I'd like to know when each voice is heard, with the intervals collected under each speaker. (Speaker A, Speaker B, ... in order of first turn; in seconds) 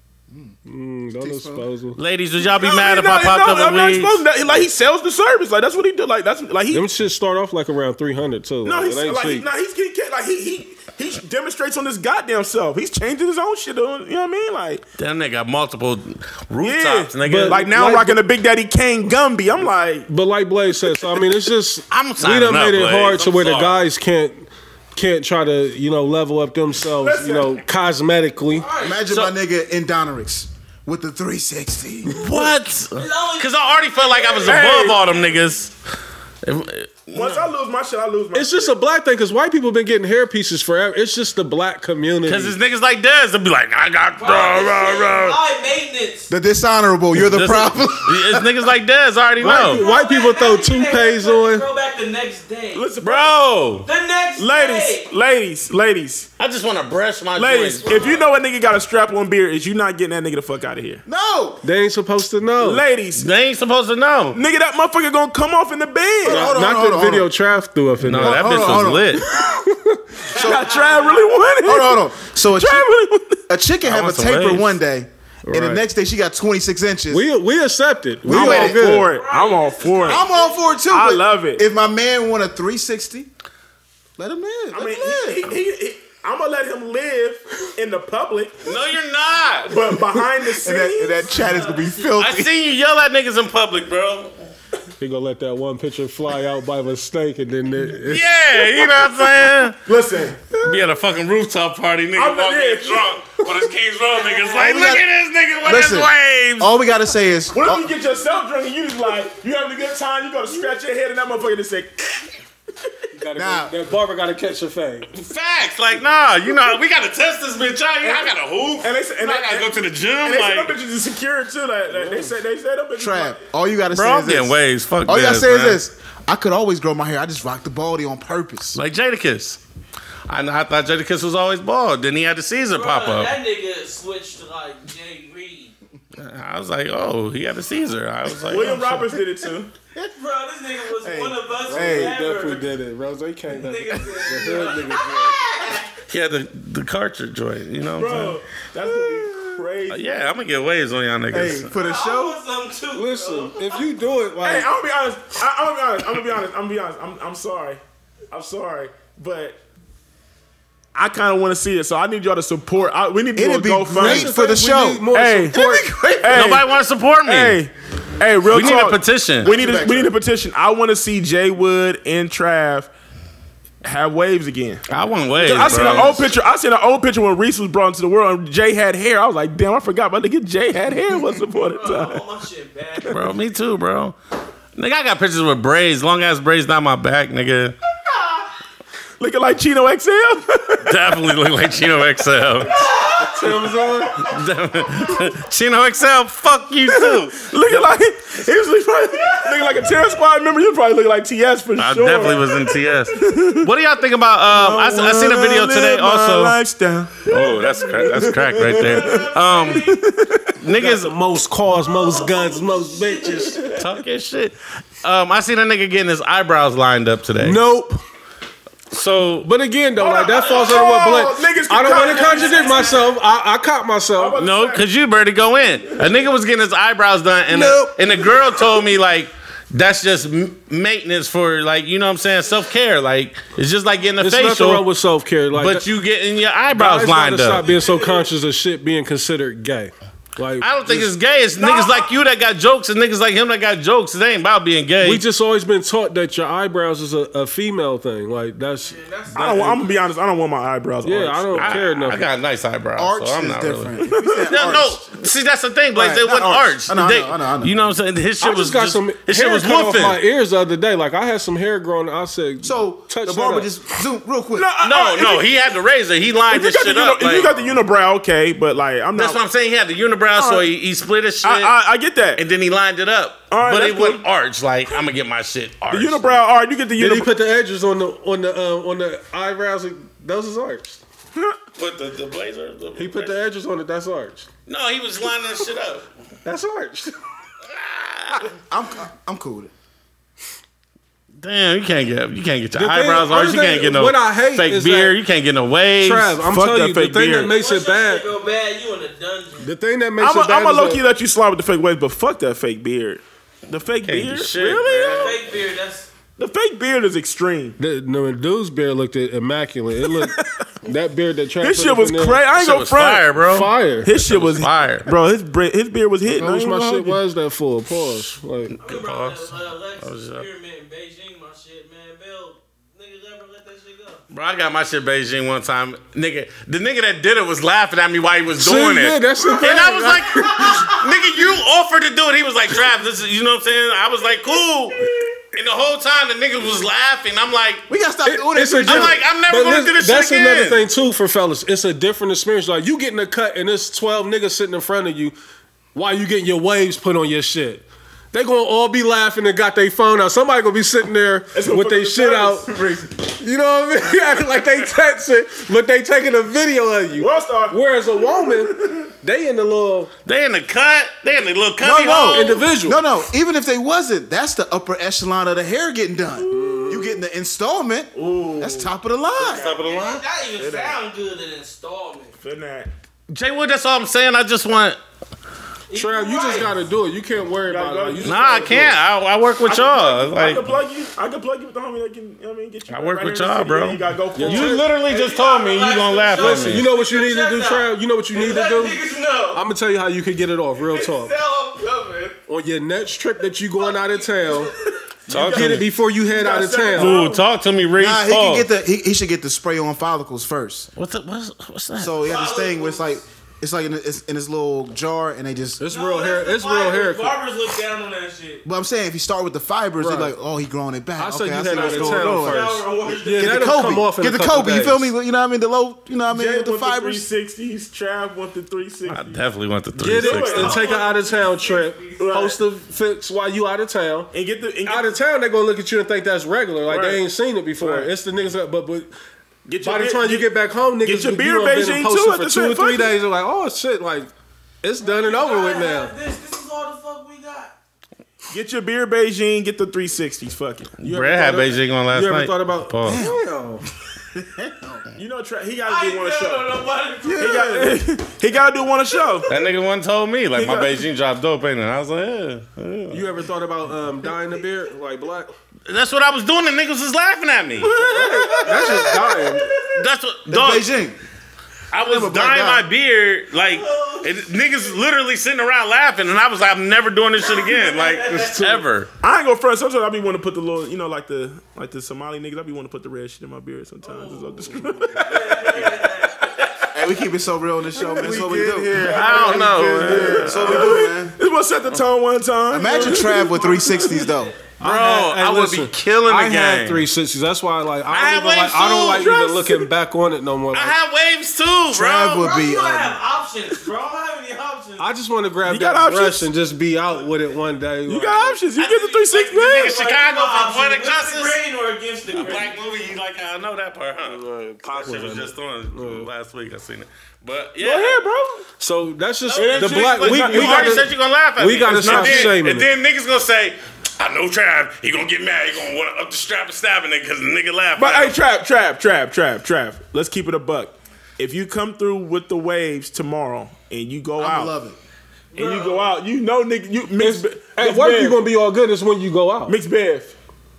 Speaker A: 0.3-0.6, 1.2-1.7, 28.8-32.5, 46.3-48.5, 61.0-61.6, 66.2-67.3, 68.2-69.3, 70.3-70.8, 71.6-72.9, 73.5-77.3, 78.2-79.0, 80.0-83.3, 84.2-85.5, 90.5-92.5, 104.5-105.1, 105.6-107.9, 113.3-113.7, 123.0-128.8, 148.8-149.5, 151.3-152.4, 163.3-166.6, 169.4-170.1, 252.9-255.2, 255.9-257.8, 262.6-264.7, 288.5-289.7, 337.9-339.2, 361.8-369.7, 397.9-400.9, 402.0-405.8, 408.6-412.7, 413.2-417.3, 443.0-443.4, 444.3-445.0, 447.3-448.0, 458.6-459.4, 460.5-461.2, 462.0-462.9, 476.9-481.4, 482.7-484.5, 491.9-493.2, 524.4-525.0
Speaker B: 0.6-2.0, 6.7-9.4, 17.2-18.2, 20.1-28.7, 38.3-42.5, 49.4-51.7, 61.6-62.8, 66.2-68.7, 69.4-69.9, 75.4-75.8, 77.1-79.1, 95.0-98.9, 113.1-115.1, 121.9-122.4, 141.7-145.4, 152.9-154.7, 163.9-166.0, 193.1-194.2, 210.7-213.6, 217.4-218.0, 219.4-224.3, 227.5-227.9, 234.2-235.8, 236.7-240.7, 245.0-249.4, 251.0-252.2, 258.4-263.7, 267.4-267.8, 277.0-281.0, 283.0-284.5, 286.4-287.1, 292.8-295.1, 296.0-298.3, 299.6-301.0, 307.8-312.4, 313.5-314.1, 316.3-318.8, 328.6-331.0, 338.2-345.3, 345.9-352.7, 353.2-360.1, 362.3-363.0, 366.5-367.1, 375.9-378.7, 384.3-384.9, 386.3-391.4, 392.5-394.7, 395.5-397.2, 405.8-407.4, 410.0-410.3, 411.2-415.1, 420.0-424.3, 424.8-429.1, 429.8-434.3, 434.8-436.1, 441.1-443.8, 453.1-455.5, 457.9-459.7, 477.9-480.3, 484.8-490.9, 495.0-498.6, 504.2-506.3, 508.8-512.9, 527.2-529.8
Speaker C: 2.0-4.2, 15.0-17.7, 21.9-23.8, 32.1-35.8, 36.4-37.5, 42.2-45.4, 47.1-49.8, 53.0-53.9, 56.4-58.2, 63.1-64.4, 68.0-69.2, 73.8-74.7, 88.6-89.8, 92.2-94.3, 98.0-99.8, 100.5-106.7, 115.1-120.8, 123.9-125.8, 128.7-129.6, 130.3-133.3, 136.2-139.1, 146.1-148.4, 149.9-151.7, 166.3-167.6, 168.5-169.5, 174.9-176.3, 183.1-184.2, 184.8-187.8, 190.8-192.7, 194.1-197.9, 201.8-206.6, 207.3-209.9, 210.5-211.2, 213.8-217.6, 218.9-219.5, 224.4-234.8, 235.5-237.6, 240.6-245.2, 251.6-260.2, 264.8-267.5, 269.1-271.8, 272.4-276.4, 281.8-283.4, 284.7-286.1, 287.7-288.5, 291.4-296.4, 304.0-305.4, 312.6-315.1, 318.8-320.4, 324.3-335.0, 335.5-337.9, 338.8-340.9, 360.2-362.6, 369.4-370.2, 373.3-375.0, 378.2-380.7, 382.9-386.9, 395.3-395.9, 396.9-398.7, 400.9-402.3, 419.1-420.8, 441.0-443.2, 449.5-453.2, 455.9-457.9, 459.7-460.9, 461.9-469.1, 479.1-480.9, 484.8-487.0, 488.1-489.6, 490.7-492.3, 498.8-501.6, 502.3-508.3, 509.5-518.4
Speaker D: 2.4-6.9, 8.6-14.8, 16.6-20.1, 27.0-27.6, 34.4-35.0, 37.1-38.7, 52.7-53.3, 54.4-56.3, 57.4-61.0, 62.6-63.3, 64.3-66.5, 70.3-73.4, 78.2-80.2, 80.9-81.6, 84.7-88.7, 89.7-91.3, 99.8-100.4, 102.1-103.2, 107.5-112.2, 118.0-123.4, 138.4-139.7, 141.0-142.2, 148.0-150.3, 154.4-159.6, 160.9-164.3, 165.1-165.6, 166.2-166.7, 167.2-172.9, 173.8-174.8, 175.3-182.2, 189.2-191.0, 192.7-193.8, 196.9-203.7, 204.5-210.6, 213.6-213.9, 220.0-223.0, 224.1-224.9, 225.8-226.2, 240.9-242.1, 249.3-251.8, 254.0-254.7, 264.5-265.6, 266.5-269.4, 270.4-270.7, 271.4-272.4, 273.5-274.2, 275.9-277.3, 296.4-297.5, 300.2-305.4, 306.4-307.8, 310.2-310.6, 311.6-313.3, 314.0-317.2, 351.5-353.0, 357.2-359.1, 366.4-367.0, 368.1-368.9, 370.6-371.0, 372.4-372.9, 377.6-379.0, 379.6-385.0, 395.3-397.4, 411.9-412.8, 416.2-419.4, 420.0-420.8, 422.2-422.6, 424.3-425.2, 426.9-427.2, 427.8-428.1, 429.7-430.5, 431.0-433.2, 438.5-441.6, 445.1-449.5, 450.5-451.0, 457.8-459.6, 469.2-476.6, 478.0-484.3, 495.6-496.5, 498.1-500.1, 507.8-508.6, 509.5-511.1, 511.8-512.6, 518.0-524.7, 525.5-528.4, 529.7-530.4
Speaker E: 28.5-29.3, 32.9-35.4, 44.2-46.3, 49.4-52.9, 53.8-55.1, 57.9-58.1, 70.3-71.3, 79.0-80.8, 91.2-92.2, 132.7-135.7, 139.9-142.7, 143.5-145.9, 151.7-153.8, 181.5-183.2, 208.8-210.0, 211.7-213.8, 220.3-221.0, 221.8-223.2, 237.4-238.3, 248.8-249.9, 297.4-299.7, 305.1-306.1, 318.8-324.2, 369.4-372.3, 375.9-376.7, 384.9-389.6, 390.9-392.4, 393.7-395.0, 402.2-403.2, 405.8-408.6, 411.7-413.7, 420.2-422.4, 435.0-437.7, 445.8-447.8, 463.7-464.2, 467.4-468.8, 474.0-476.6, 492.2-495.1, 499.7-502.7, 525.5-526.1